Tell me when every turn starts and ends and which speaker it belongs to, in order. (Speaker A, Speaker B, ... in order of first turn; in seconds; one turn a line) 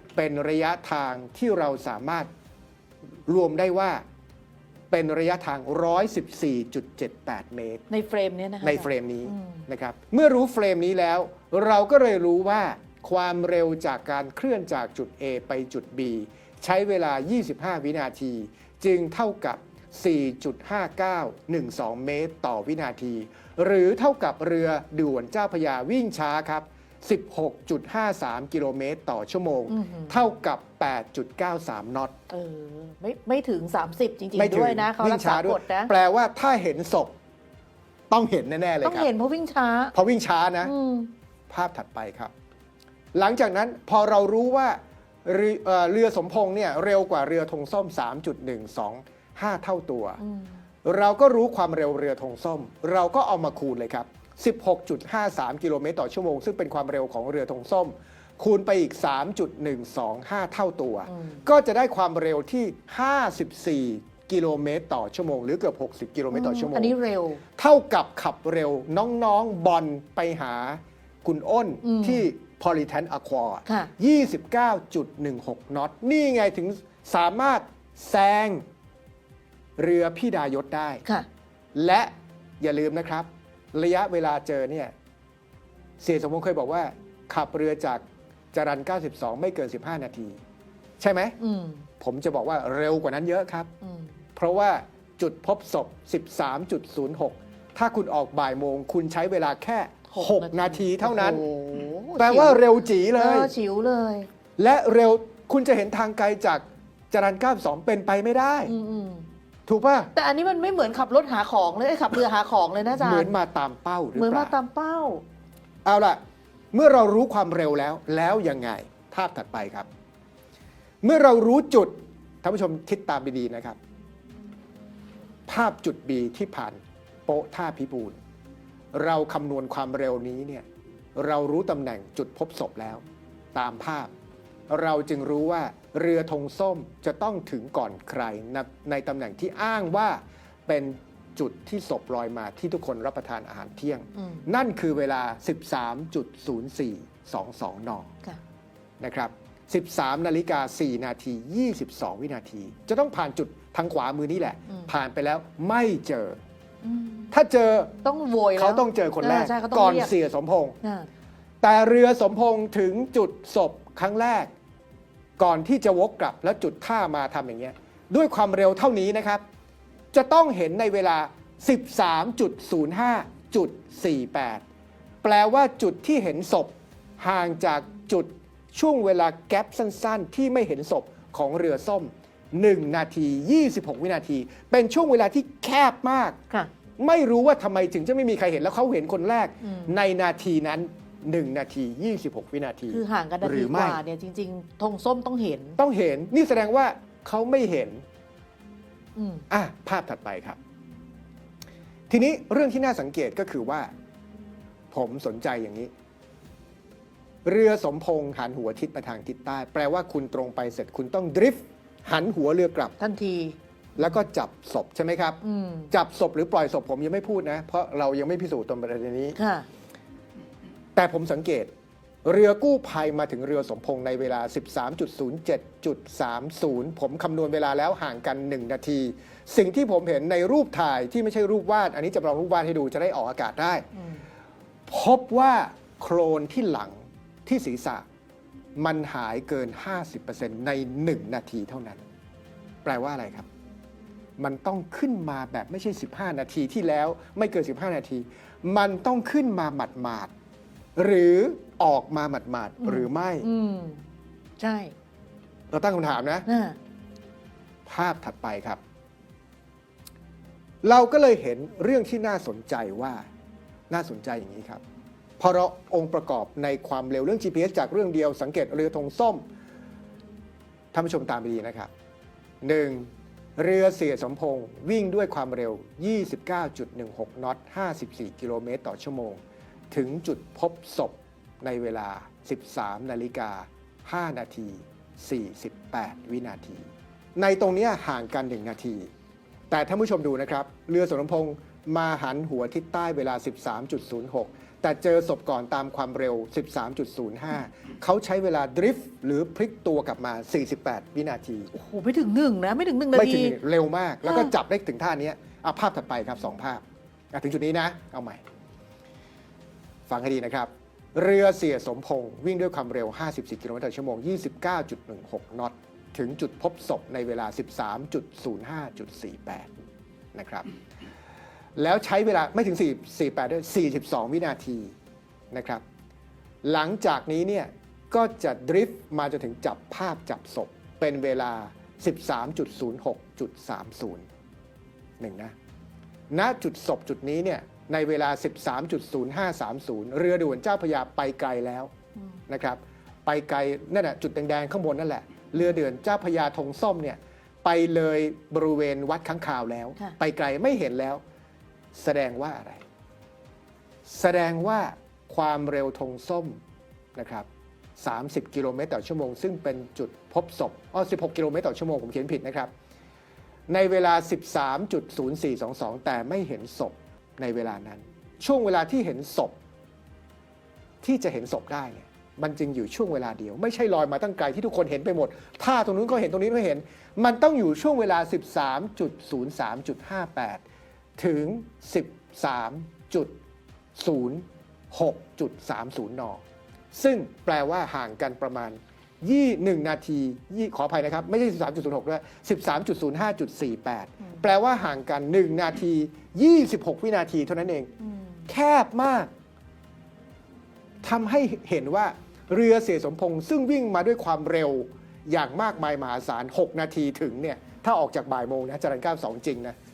Speaker A: 0.2-2.3
Speaker A: 3.3-4.0
Speaker A: 4.9-7.9
Speaker B: 7.9-9.7
Speaker A: 8.6-32.2
Speaker B: 29.7-30.1
Speaker B: 32.3-35.9
Speaker A: 34.4-37.1
Speaker A: 38.1-39.1
Speaker B: 38.8-39.9
Speaker A: 39.9-40.7
Speaker B: 40.6-41.1
Speaker A: 41.5-42.3
Speaker A: 43.1-50.2
Speaker B: 50.2-50.6
Speaker A: 50.8-67.0
Speaker B: 61.1-61.4
Speaker B: 66.3-67.4
Speaker A: 67.6-78.7
Speaker B: 71.8-72.3
Speaker B: 73.7-73.9
Speaker A: 79.8-81.0
Speaker A: 81.8-84.9
Speaker A: 86.0-90.4
Speaker A: 91.0-91.4
Speaker B: 91.4-91.9
Speaker A: 92.0-93.7
Speaker B: 93.8-94.2
Speaker A: 94.4-101.4
Speaker B: 100.1-104.3
Speaker A: 102.2-103.5
Speaker A: 104.6-108.7
Speaker B: 108.7-109.3
Speaker A: 109.7-110.1
Speaker B: 110.1-113.3
Speaker A: 112.9-114.5
Speaker B: 114.2-115.2
Speaker A: 115.8-116.2
Speaker A: 116.7-119.9
Speaker A: 121.0-123.8
Speaker A: 125.5-128.2
Speaker A: 128.9-133.0
Speaker A: 133.5-134.1
Speaker A: 134.7-148.1
Speaker B: 144.2-144.4
Speaker A: 149.0-156.4
Speaker B: 156.8-157.3
Speaker A: 157.3-158.0
Speaker B: 158.0-160.1
Speaker A: 158.6-160.8
Speaker B: 160.8-161.1
Speaker A: 161.6-164.5
Speaker A: 165.4-169.4
Speaker A: 170.1-174.6
Speaker A: 175.2-186.4
Speaker A: 187.0-194.0
Speaker B: 189.6-189.9
Speaker B: 192.9-195.8
Speaker A: 195.8-198.0
Speaker B: 199.2-199.5
Speaker A: 199.5-200.6
Speaker A: 202.1-203.9
Speaker A: 204.9-205.9
Speaker A: 207.4-212.9
Speaker B: 213.0-214.1
Speaker A: 214.0-219.4
Speaker B: 215.4-215.9
Speaker B: 219.4-219.7
Speaker A: 221.0-221.7
Speaker A: 222.2-233.9
Speaker B: 233.9-234.2
Speaker A: 234.9-238.1
Speaker A: 238.8-242.0
Speaker A: 242.8-243.5
Speaker A: 244.4-250.3
Speaker A: 251.0-253.5
Speaker B: 252.8-254.0
Speaker B: 254.6-254.9
Speaker A: 255.7-256.5
Speaker B: 256.5-256.8
Speaker A: 257.9-258.8
Speaker A: 260.8-263.3
Speaker A: 263.9-264.8
Speaker A: 265.4-269.4
Speaker A: 270.9-271.9
Speaker A: 272.6-279.4
Speaker A: 279.9-289.1
Speaker A: 289.7-301.7
Speaker B: 301.7-303.6
Speaker A: 303.1-308.4
Speaker B: 304.2-304.5
Speaker A: 310.1-319.7
Speaker A: 320.3-320.7
Speaker A: 321.8-324.9
Speaker A: 325.5-325.8
Speaker A: 326.6-334.3
Speaker A: 335.2-335.5
Speaker A: 336.3-341.9
Speaker A: 342.5-351.2
Speaker A: 351.9-352.8
Speaker A: 354.1-356.6
Speaker A: 357.2-357.5
Speaker A: 358.0-362.7
Speaker A: 363.7-369.5
Speaker A: 371.0-380.6
Speaker A: 381.2-383.4
Speaker A: 384.0-386.4
Speaker A: 386.9-397.9
Speaker B: 398.0-398.5
Speaker A: 398.5-399.3
Speaker A: 401.0-409.8